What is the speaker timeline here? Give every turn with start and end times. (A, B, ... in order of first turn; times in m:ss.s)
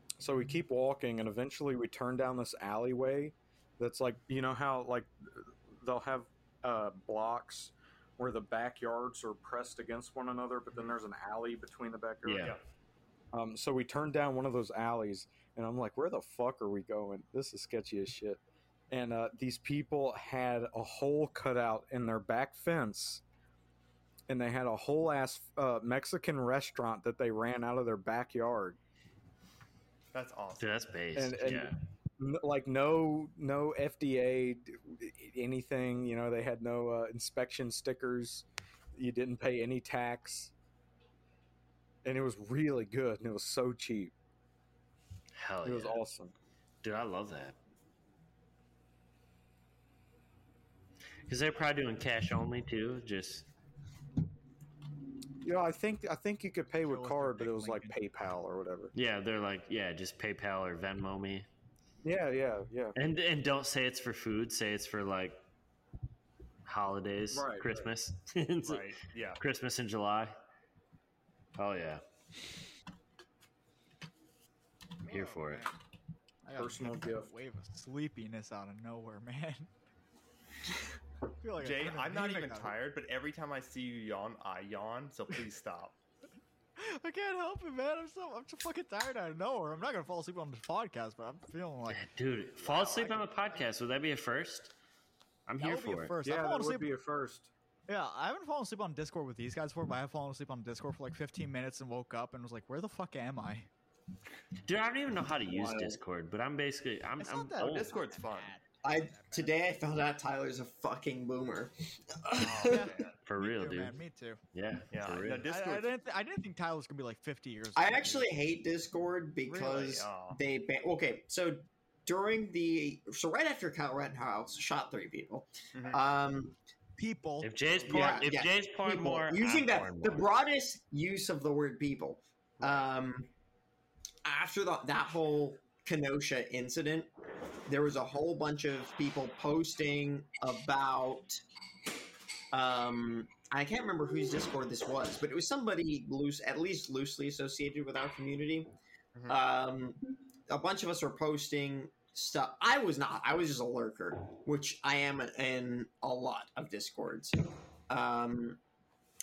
0:00.2-0:12.5 A
0:12.2-0:12.5 B
0:13.3-0:23.2 A
0:24.3-0:28.8 A
0:30.1-0:30.7 C
0:30.6-0:31.8 B
0:31.2-0:40.5 A
0:42.0-0:44.1 A
0:45.4-0:46.0 B
0:45.6-0:46.3 A
0:46.8-0:47.6 B
0:51.3-0:53.5 B
0:55.4-0:58.9 A
0:56.8-0:58.0 D
0:58.9-1:01.5 B
1:02.0-1:03.0 A
1:03.0-1:05.4 B
1:06.6-1:10.4 B
1:07.3-1:07.8 A
1:08.6-1:09.4 C
1:11.6-1:12.0 B
1:15.0-1:15.7 D
1:15.1-1:15.6 B
1:16.4-1:19.7 D
1:16.6-1:17.3 A
1:21.4-1:22.8 D
1:21.6-1:26.0 C
1:26.8-1:32.0 D
1:31.9-1:34.7 B
1:32.6-1:33.2 D
1:35.5-1:36.1 B
1:35.6-1:36.9 D
1:36.2-1:37.5 A
1:37.9-1:43.7 D
1:44.6-1:48.0 B
1:45.5-1:46.0 A
1:47.2-1:49.6 D
1:47.6-1:48.6 C
1:48.8-1:52.9 E
1:52.4-1:53.1 C
1:52.6-1:54.4 D
1:53.3-1:54.0 B
1:54.5-1:55.4 B
1:54.9-1:55.9 C
1:55.4-1:58.3 D
1:57.8-2:06.6 E
1:59.5-2:00.4 C
2:05.7-2:06.0 C
2:07.0-2:07.5 D
2:07.4-2:10.3 B
2:07.9-2:13.3 E
2:12.6-2:12.9 C
2:14.2-2:17.1 E
2:17.6-2:21.4 E
2:22.5-2:28.7 E
2:29.3-2:38.6 E